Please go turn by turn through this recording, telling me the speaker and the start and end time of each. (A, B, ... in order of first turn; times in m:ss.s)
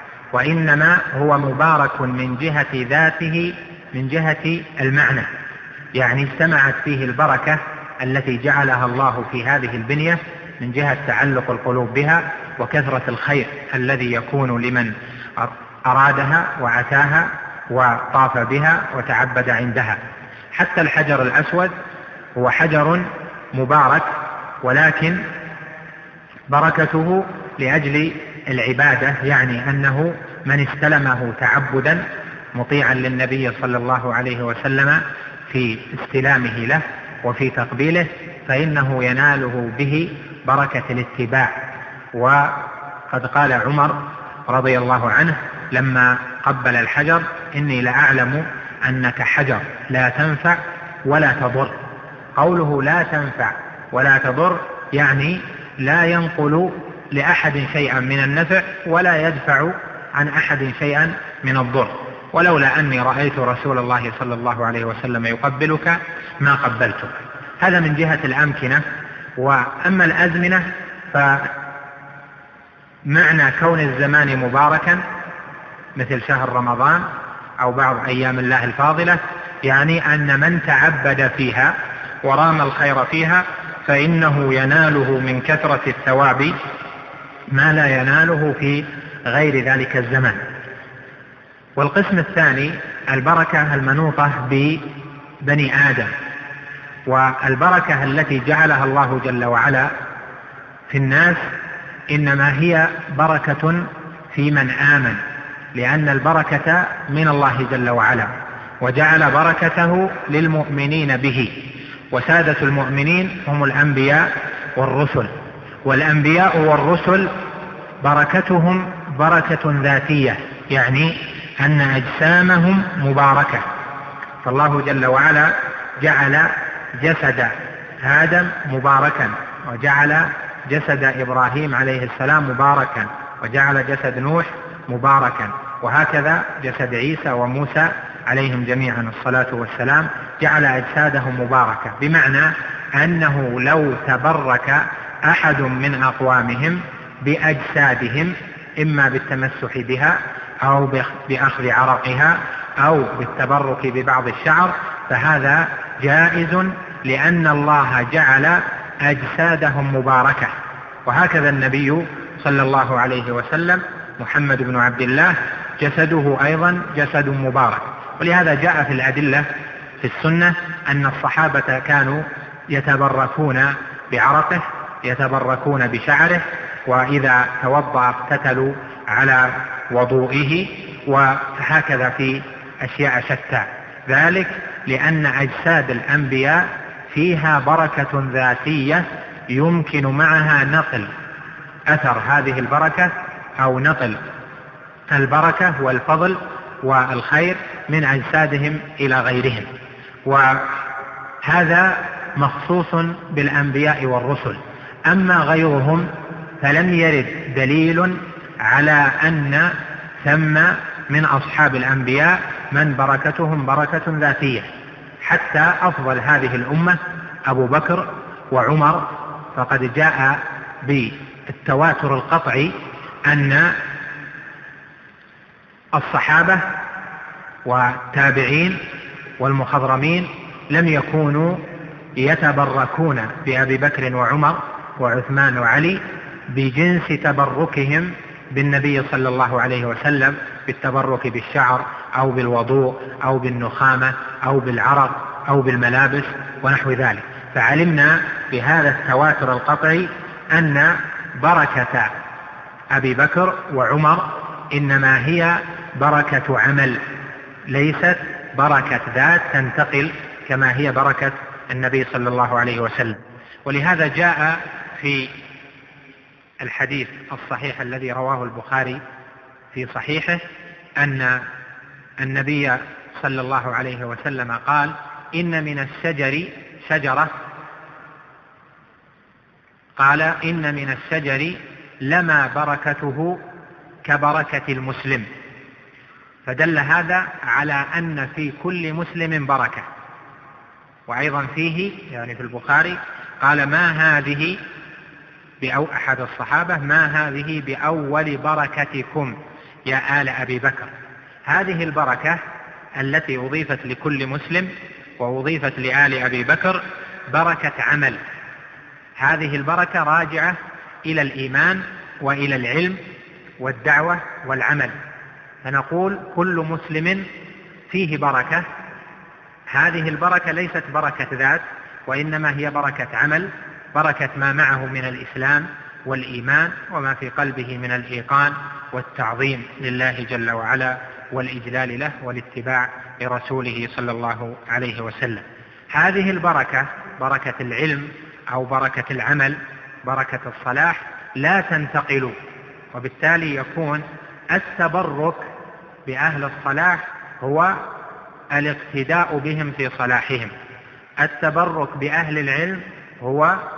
0:00.3-0:05.3 A
0:06.0-0:20.0 A
0:20.5-0:21.7 A
0:22.4-0:25.2 A
0:26.5-0:41.6 A
0:42.1-0:51.8 A
0:52.4-1:08.8 A
1:09.4-1:11.5 A
1:13.1-1:15.0 A
1:16.0-1:17.1 A
1:17.6-1:26.6 A
1:27.5-1:30.4 A
1:31.8-1:34.9 A
1:35.4-1:36.1 A
1:37.1-1:39.9 A
1:40.9-1:41.5 A
1:42.1-1:45.2 A
1:45.7-1:55.3 A
1:55.8-1:57.4 A
1:58.0-2:03.7 A
2:04.4-2:40.5 A
2:41.1-2:49.5 A
2:50.0-3:11.1 A
3:11.9-3:14.2 A
3:15.1-3:19.7 A
3:20.3-3:20.8 A
3:21.4-3:26.1 A
3:26.6-3:34.7 A
3:35.2-3:42.8 A
3:43.3-3:43.8 A
3:45.9-3:46.8 A
3:47.6-3:48.8 A
3:49.4-3:51.6 A
3:52.2-4:12.1 A
4:12.9-4:17.0 A
4:17.7-4:25.3 A
4:26.6-4:29.0 A
4:29.7-4:30.4 A
4:31.0-4:31.5 A
4:32.2-4:37.3 A
4:40.0-4:43.4 A
4:44.0-4:45.3 A
4:46.5-4:49.9 A
4:51.1-4:54.6 A
4:55.6-4:59.4 A
4:59.9-5:00.9 A
5:01.5-5:02.4 A
5:03.0-5:08.2 A
5:09.2-5:13.0 A
5:13.6-5:15.0 A
5:15.6-5:17.3 A
5:17.9-5:18.7 A
5:19.7-5:42.4 A
5:42.9-5:45.5 A
5:46.1-5:47.8 A
5:48.5-5:50.5 A
5:51.2-5:53.6 A